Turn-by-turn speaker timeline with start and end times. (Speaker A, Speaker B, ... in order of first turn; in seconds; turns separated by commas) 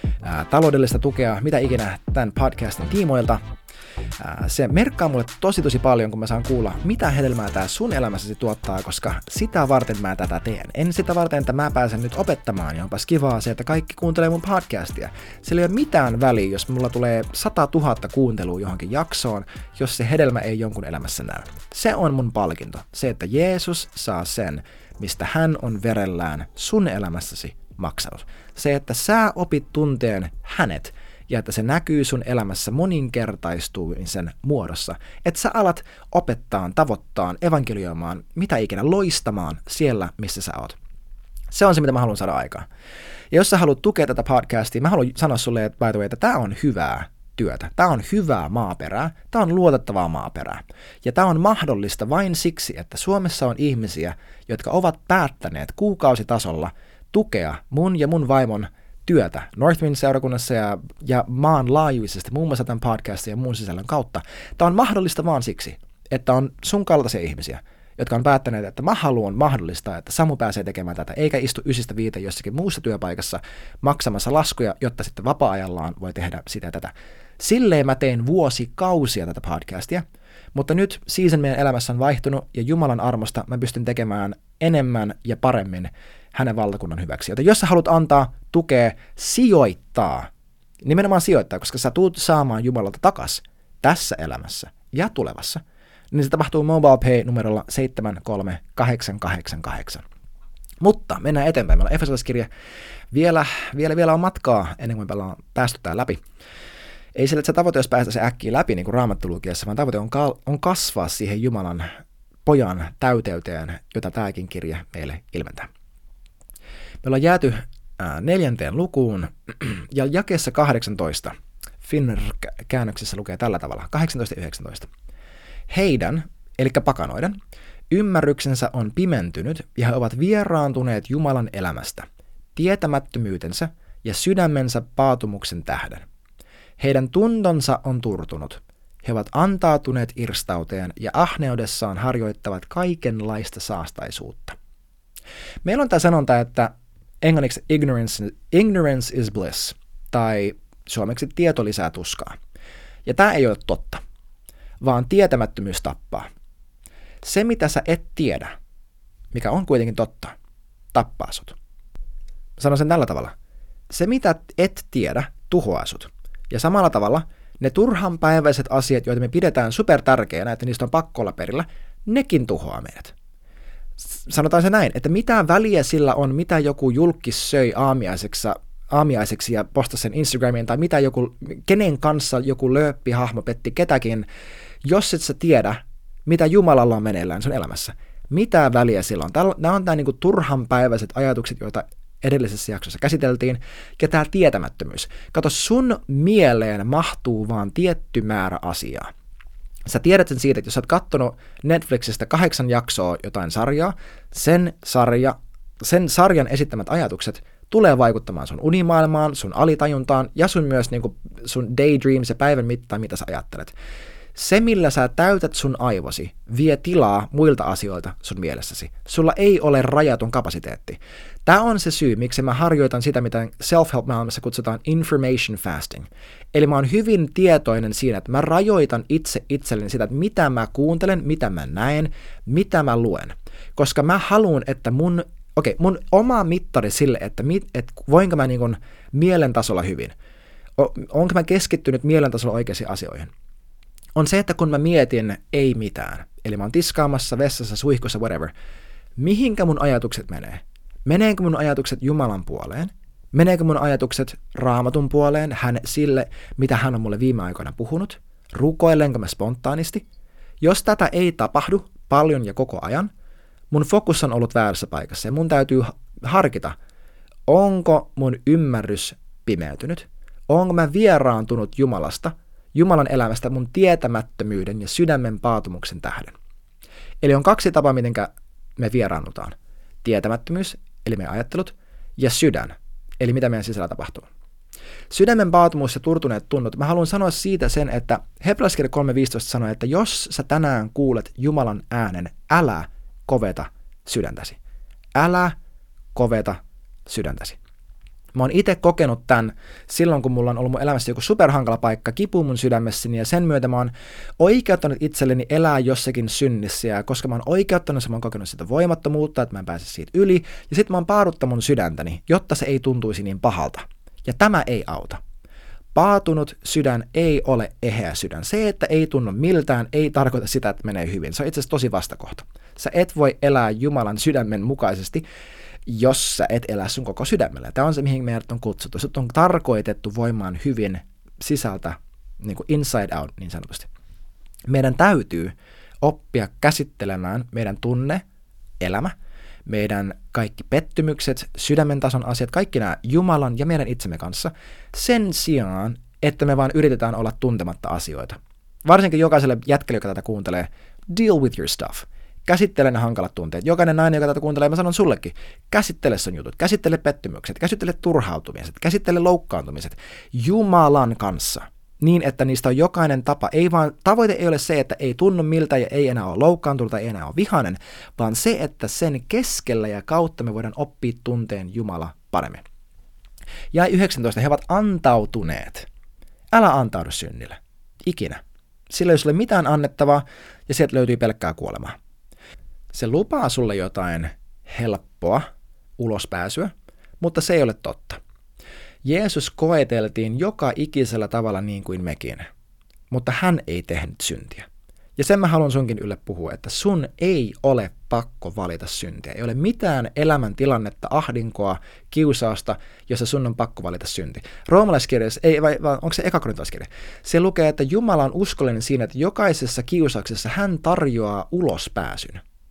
Speaker A: 0.2-3.4, Speaker A: 4.2-40.8, Speaker A: 41.5-42.7, Speaker A: 43.3-90.3, Speaker A: 90.8-100.0, Speaker A: 100.8-102.5, Speaker A: 103.1-106.2, Speaker A: 107.2-111.9, Speaker A: 112.5-115.7, Speaker A: 117.0-124.9, Speaker A: 125.7-127.4, Speaker A: 127.9-132.1, Speaker A: 132.6-136.1, Speaker A: 136.8-144.6, Speaker A: 145.7-152.3, Speaker A: 153.1-154.0, Speaker A: 154.8-156.3, Speaker A: 157.2-158.5, Speaker A: 159.3-160.3, Speaker A: 160.9-161.6, Speaker A: 162.6-163.3, Speaker A: 163.9-173.1, Speaker A: 174.0-184.3, Speaker A: 184.8-199.1, Speaker A: 199.9-213.7, Speaker A: 214.3-240.1, Speaker A: 240.8-243.3, Speaker A: 244.2-248.5, Speaker A: 249.2-260.0, Speaker A: 260.6-263.1, Speaker A: 263.7-266.8, Speaker A: 267.5-276.3, Speaker A: 277.2-284.3, Speaker A: 285.1-294.6, Speaker A: 295.2-295.6, Speaker A: 296.1-297.6, Speaker A: 298.4-315.2, Speaker A: 315.9-325.2, Speaker A: 325.9-333.9, Speaker A: 334.7-338.2, Speaker A: 338.8-339.1, Speaker A: 339.7-372.6, Speaker A: 373.7-375.9, Speaker A: 376.5-381.9, Speaker A: 382.9-385.5, Speaker A: 386.0-388.2, Speaker A: 389.1-392.5, Speaker A: 393.1-412.4